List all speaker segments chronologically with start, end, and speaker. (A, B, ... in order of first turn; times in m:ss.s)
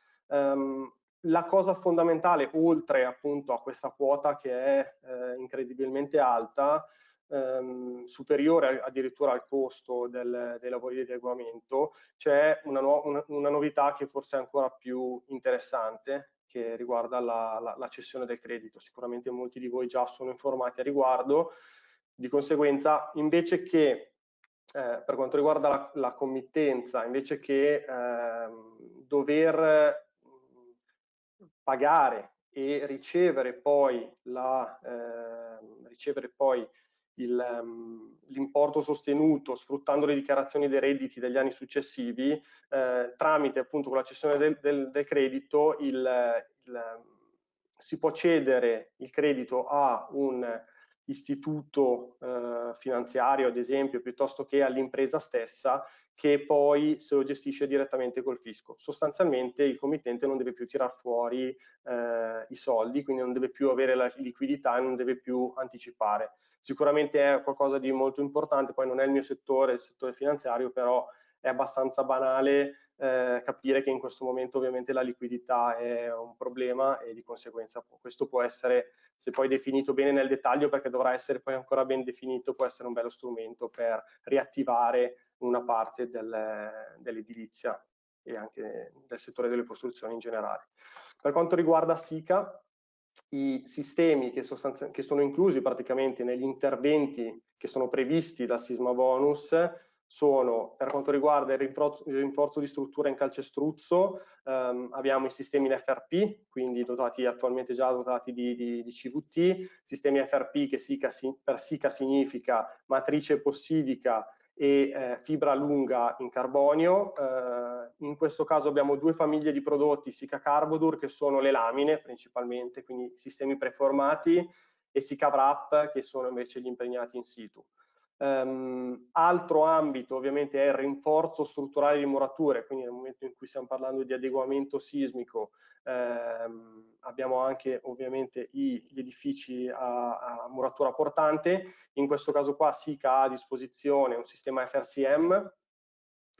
0:00.3-0:21.6 A
0:22.2-0:24.1 A
0:24.7-0:30.1 A
0:31.6-0:47.1 A
0:47.8-1:30.7 A
1:31.2-1:32.6 A
1:33.3-2:07.6 A
2:08.2-2:25.5 A